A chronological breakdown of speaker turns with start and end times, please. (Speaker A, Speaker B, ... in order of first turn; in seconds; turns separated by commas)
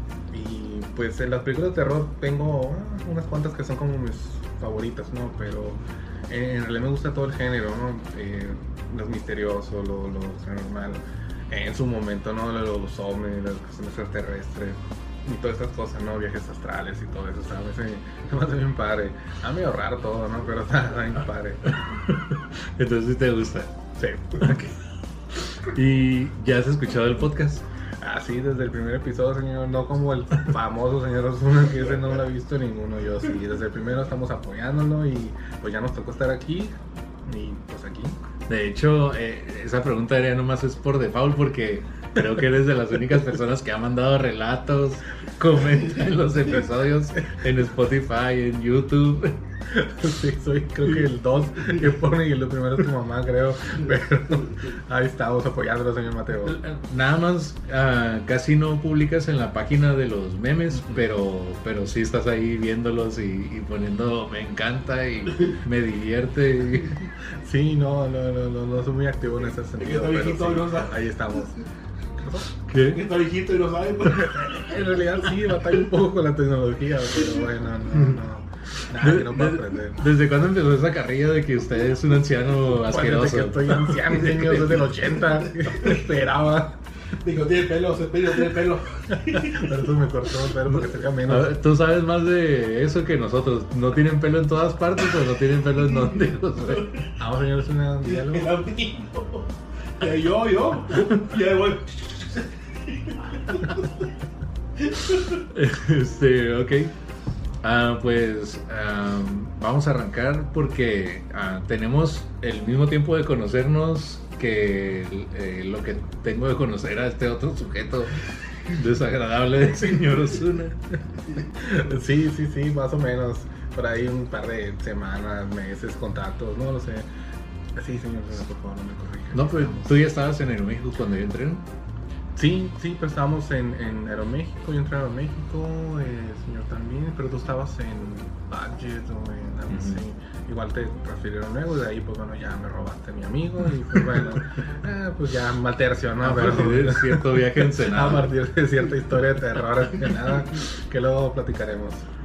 Speaker A: 0.3-21.6, Speaker B: 21.7-23.7, Speaker A: 24.0-24.6, Speaker B: 24.4-24.7, Speaker B: 25.4-27.6, Speaker A: 28.0-38.2, Speaker B: 38.5-49.4, Speaker A: 49.7-56.6, Speaker B: 56.4-67.0, Speaker A: 67.4-71.6, Speaker C: 69.8-71.0, Speaker A: 72.2-72.5, Speaker B: 72.7-73.0, Speaker C: 72.9-74.8, Speaker A: 74.1-80.0, Speaker B: 78.8-84.9, Speaker A: 82.8-86.8, Speaker C: 87.2-89.7, Speaker A: 89.3-91.5, Speaker B: 90.7-96.9, Speaker C: 96.7-97.1, Speaker A: 97.2-98.5, Speaker C: 98.1-104.1, Speaker C: 104.8-105.4, Speaker B: 105.4-106.9, Speaker B: 107.6-120.8, Speaker A: 121.6-127.1, Speaker A: 127.8-130.0, Speaker B: 129.3-131.7, Speaker A: 132.4-152.1, Speaker B: 139.7-140.0, Speaker B: 146.2-148.3